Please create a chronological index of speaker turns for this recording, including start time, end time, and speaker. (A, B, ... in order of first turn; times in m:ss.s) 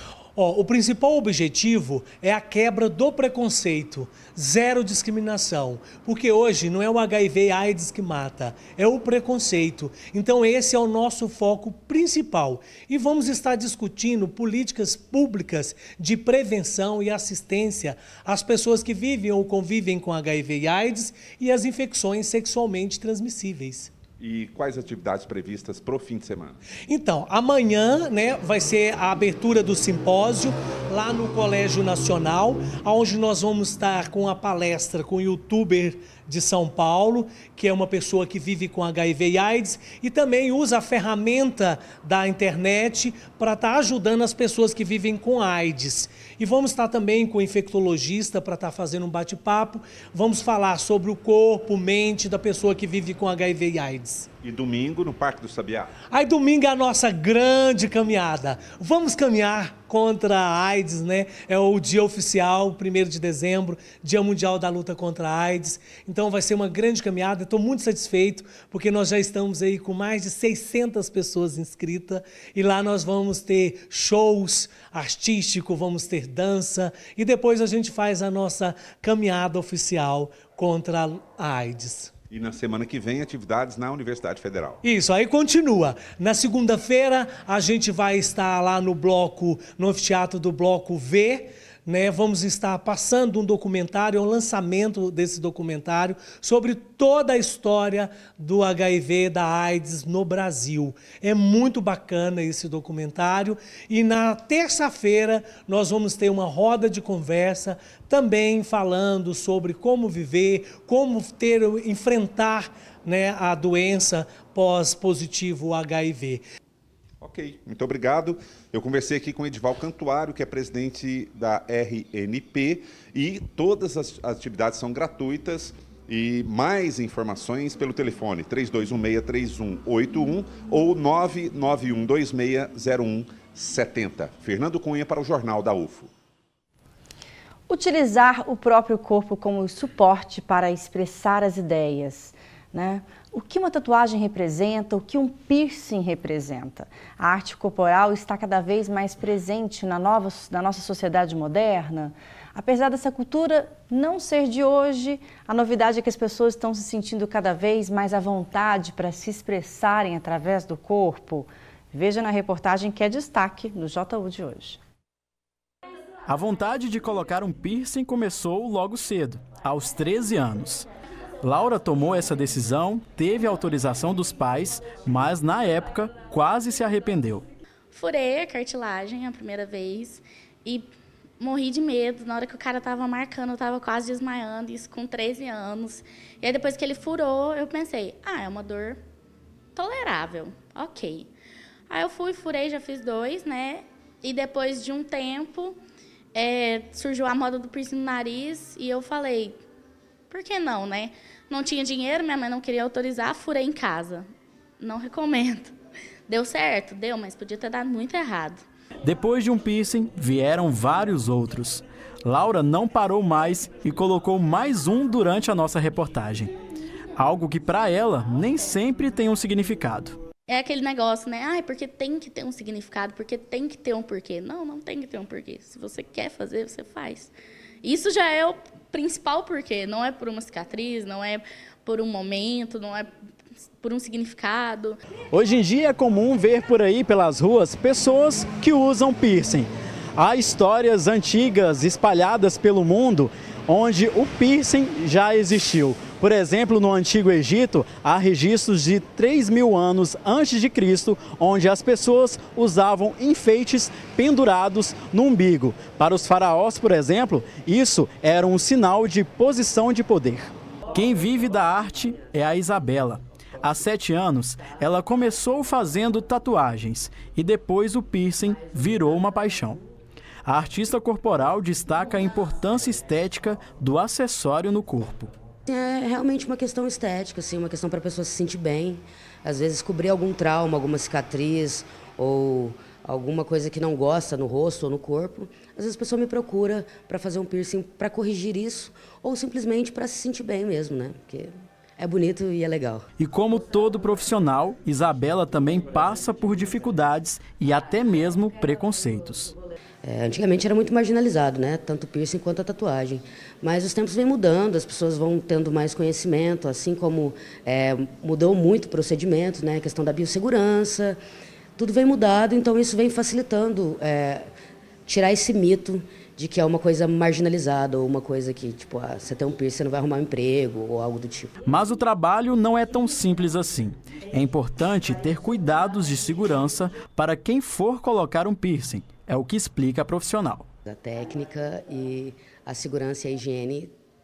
0:00.4-0:23.9 A
0:24.2-0:26.6 B
0:26.9-0:54.3 A
0:54.4-0:55.9 B
0:56.1-1:22.1 A
1:22.3-1:24.8 B
1:24.8-1:56.4 A
1:57.2-2:16.1 B
2:17.7-2:44.8 C
2:46.3-2:50.9 D
2:51.4-2:57.4 D
2:57.9-3:00.9 E
3:01.4-3:09.0 E
3:09.8-3:11.3 E
3:11.9-3:15.8 E
3:16.3-3:19.6 E
3:20.3-3:24.3 E
3:24.8-3:25.7 E
3:26.3-3:28.6 E
3:29.0-3:36.5 D
3:37.2-3:40.2 D
3:40.5-3:47.3 E
3:47.8-3:53.1 E
3:53.8-3:55.0 E
3:55.3-4:29.8 D
4:30.4-4:35.3 D
4:35.7-4:53.1 F
4:53.2-4:59.5 D
5:00.0-5:11.2 F
5:11.8-5:14.5 F
5:15.1-5:21.6 F
5:21.7-5:30.7 D
5:30.8-5:33.9 F